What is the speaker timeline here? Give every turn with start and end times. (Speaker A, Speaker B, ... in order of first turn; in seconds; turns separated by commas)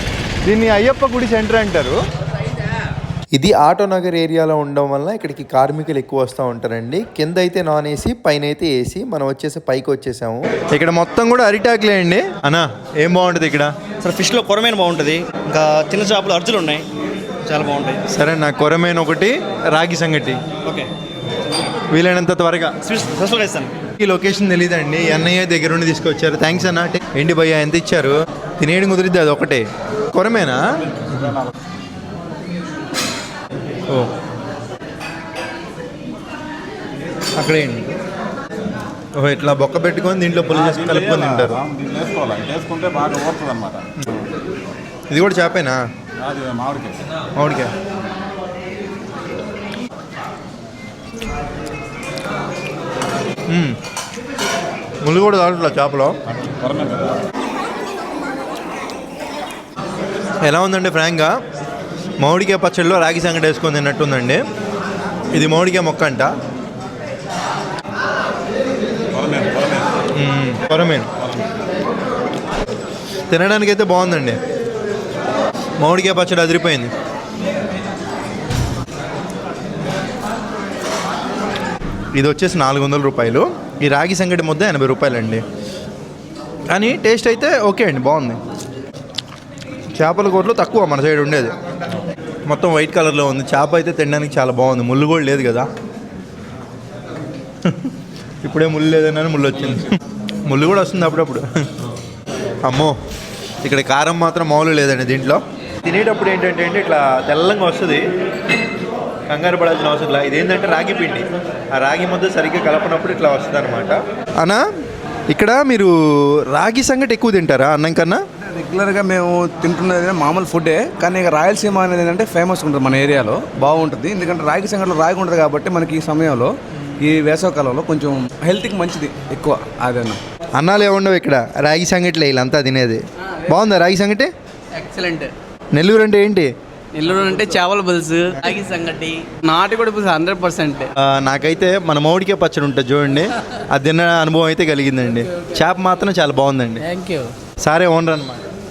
Speaker A: 0.5-2.0, Speaker A: 3.3-13.7, Speaker B: 14.0-16.9, Speaker B: 17.4-18.0, Speaker A: 18.1-20.4, Speaker B: 20.6-20.9, Speaker A: 21.9-22.8, Speaker B: 22.8-23.7, Speaker A: 24.0-31.4, Speaker A: 37.4-37.9, Speaker A: 39.2-41.6, Speaker C: 41.7-43.9, Speaker A: 45.1-45.8, Speaker C: 46.2-47.0, Speaker A: 47.4-47.7, Speaker A: 53.5-53.8, Speaker A: 55.0-56.2, Speaker C: 56.7-57.0, Speaker A: 60.4-61.4, Speaker A: 62.2-64.4, Speaker A: 65.3-66.3, Speaker C: 69.2-69.8, Speaker A: 70.1-71.1, Speaker A: 73.3-74.4, Speaker A: 75.8-76.9, Speaker A: 82.2-85.4, Speaker A: 86.7-88.4, Speaker A: 90.0-91.5, Speaker A: 92.5-95.7, Speaker A: 97.7-97.9, Speaker A: 98.4-101.6, Speaker A: 102.6-103.0, Speaker A: 103.6-108.0, Speaker A: 109.3-114.6, Speaker A: 115.3-116.0, Speaker A: 116.5-118.2, Speaker D: 118.5-130.2, Speaker A: 130.6-134.3, Speaker E: 134.8-135.3, Speaker A: 135.7-136.5, Speaker E: 136.9-140.9, Speaker A: 141.0-146.9, Speaker E: 146.9-147.3, Speaker A: 147.6-148.4